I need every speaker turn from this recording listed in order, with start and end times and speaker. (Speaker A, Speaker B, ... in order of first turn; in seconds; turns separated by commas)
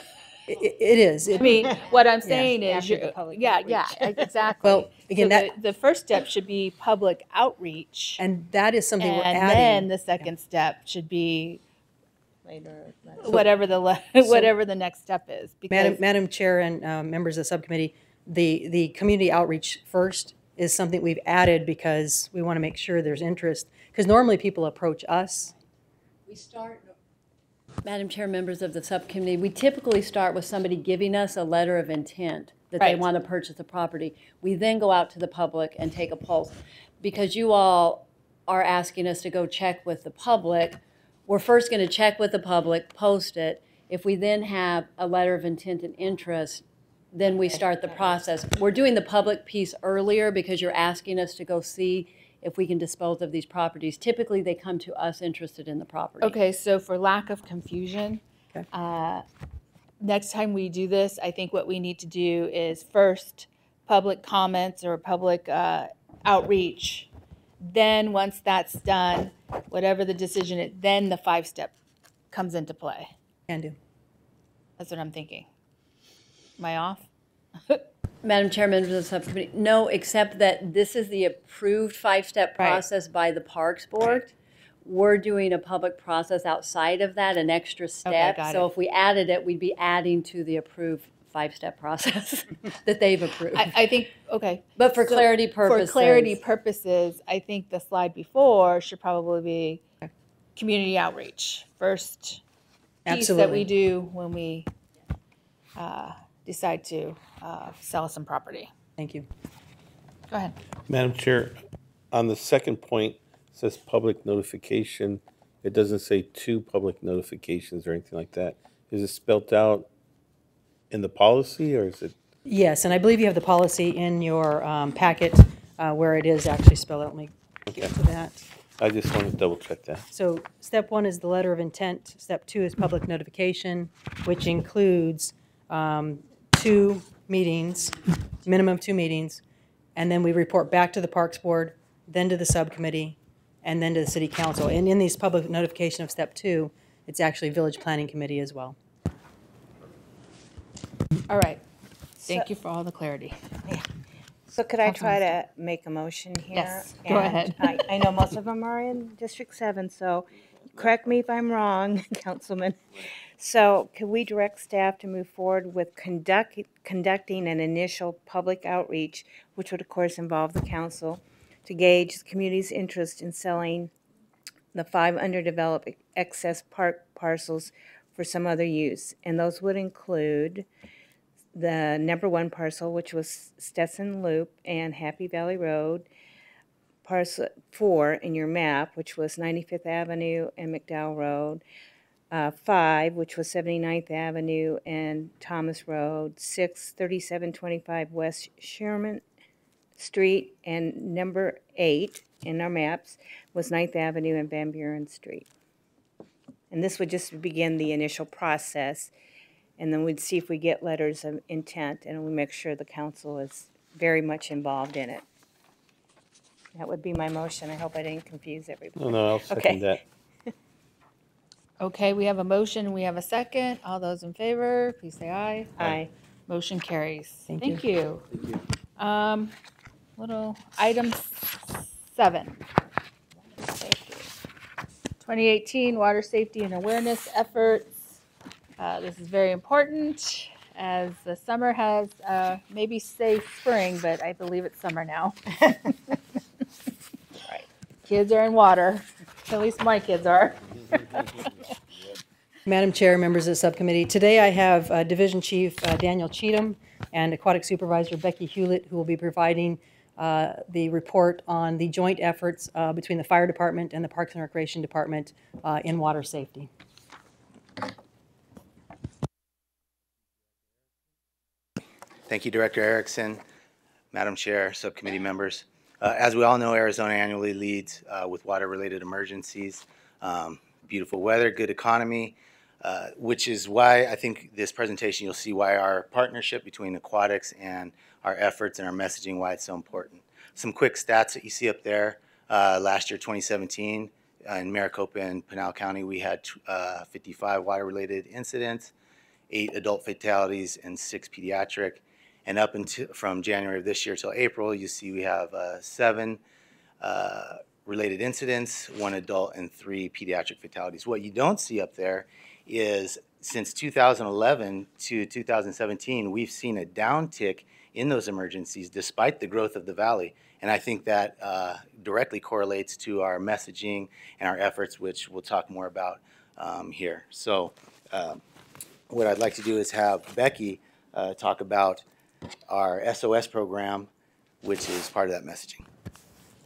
Speaker A: 0.5-2.6, Speaker B: 1.4-8.2, Speaker C: 2.7-3.9, Speaker A: 4.6-5.5, Speaker A: 8.2-10.3, Speaker B: 9.0-11.6, Speaker C: 12.4-13.4, Speaker B: 13.2-16.0, Speaker A: 15.7-25.5, Speaker D: 26.3-26.9, Speaker D: 27.8-56.4, Speaker B: 32.8-33.0, Speaker B: 56.2-59.2, Speaker B: 60.0-67.1, Speaker B: 67.6-71.7, Speaker B: 72.3-73.1, Speaker A: 73.5-73.8, Speaker B: 74.8-75.5, Speaker B: 76.6-77.1, Speaker D: 78.2-93.8, Speaker B: 82.6-82.8, Speaker B: 88.0-88.7, Speaker B: 93.5-99.8, Speaker D: 94.8-96.4, Speaker B: 100.5-102.4, Speaker A: 103.1-103.7, Speaker B: 103.1-104.7, Speaker B: 105.8-108.7, Speaker A: 109.0-109.3, Speaker B: 110.3-110.5, Speaker E: 110.9-111.6, Speaker E: 112.1-119.9, Speaker E: 120.9-122.1, Speaker A: 122.5-128.4, Speaker E: 128.8-130.0, Speaker A: 130.1-139.4, Speaker A: 139.9-148.8, Speaker B: 151.3-151.6, Speaker B: 152.2-153.4, Speaker C: 154.5-173.9, Speaker B: 154.8-155.2, Speaker B: 156.5-157.8, Speaker C: 174.7-180.7, Speaker C: 181.5-186.1, Speaker C: 187.0-191.6, Speaker C: 192.3-199.2, Speaker C: 199.9-205.5, Speaker C: 206.7-209.1, Speaker C: 209.8-215.2, Speaker C: 216.7-219.9, Speaker E: 218.9-220.0, Speaker B: 221.8-225.7, Speaker C: 225.8-226.1, Speaker B: 226.5-228.3, Speaker A: 227.5-227.8, Speaker B: 229.0-229.5, Speaker B: 230.2-232.6, Speaker B: 235.2-238.2, Speaker B: 238.8-246.2, Speaker B: 248.0-250.6, Speaker A: 252.7-266.7, Speaker F: 272.3-273.4, Speaker F: 274.1-298.9, Speaker F: 299.5-306.4, Speaker F: 307.0-328.4, Speaker F: 329.1-332.0, Speaker F: 332.7-334.1, Speaker F: 334.6-335.9